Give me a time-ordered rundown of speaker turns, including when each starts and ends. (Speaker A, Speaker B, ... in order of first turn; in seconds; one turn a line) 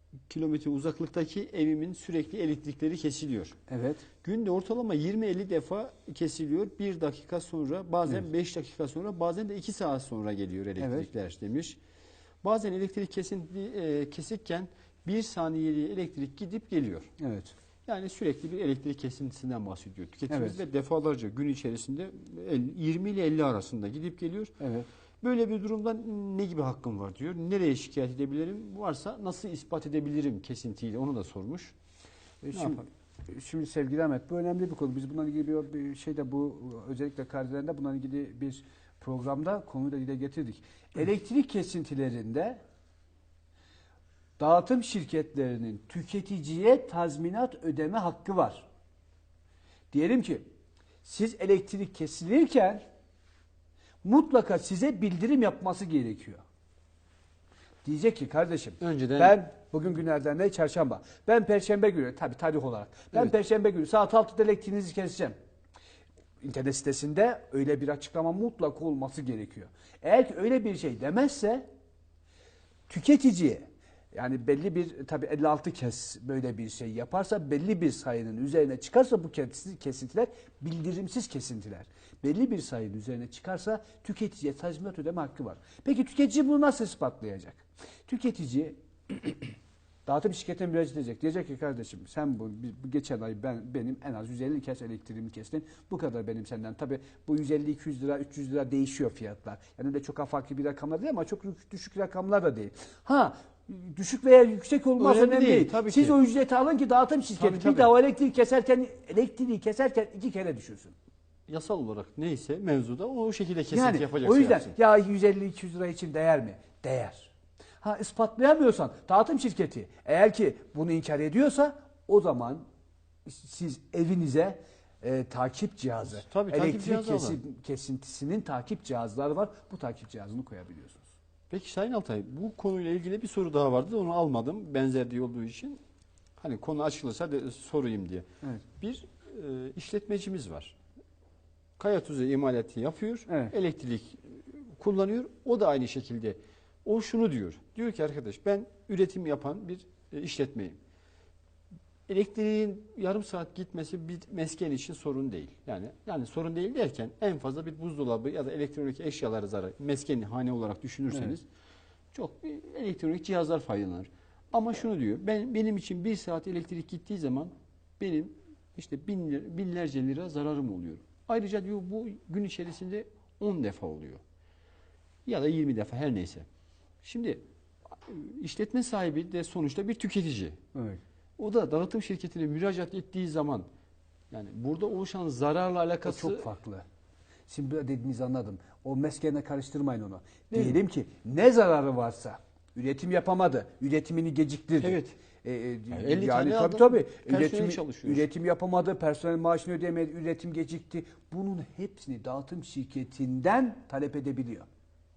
Speaker A: 0.3-3.6
Speaker B: 3.7-4.0
Speaker A: 4.2-11.8
Speaker B: 10.8-11.1
Speaker A: 12.4-17.1
Speaker B: 17.2-17.5
Speaker A: 17.9-24.6
Speaker B: 20.3-20.6
Speaker B: 24.6-24.9
Speaker A: 25.2-31.8
Speaker B: 32.4-42.6
Speaker A: 32.5-32.9
Speaker B: 44.4-48.7
Speaker B: 49.9-50.5
Speaker B: 51.0-52.8
Speaker B: 54.0-56.4
Speaker B: 57.8-65.4
Speaker A: 58.8-59.4
Speaker B: 66.4-71.7
Speaker B: 72.9-89.5
Speaker B: 90.1-110.9
Speaker A: 105.0-106.2
Speaker A: 107.4-107.9
Speaker A: 111.5-114.8
Speaker B: 113.7-122.7
Speaker B: 123.2-131.1
Speaker A: 126.0-127.4
Speaker A: 131.5-135.8
Speaker A: 136.4-138.3
Speaker A: 138.8-140.8
Speaker A: 141.8-150.8
Speaker B: 143.3-143.5
Speaker A: 152.1-161.4
Speaker A: 162.1-174.2
Speaker A: 175.2-176.5
Speaker A: 177.0-177.4
Speaker A: 178.0-180.6
Speaker B: 180.7-181.0
Speaker A: 181.4-183.7
Speaker A: 184.3-186.5
Speaker B: 186.0-186.8
Speaker B: 187.5-204.7
Speaker A: 190.5-190.8
Speaker A: 194.8-195.2
Speaker A: 195.9-198.3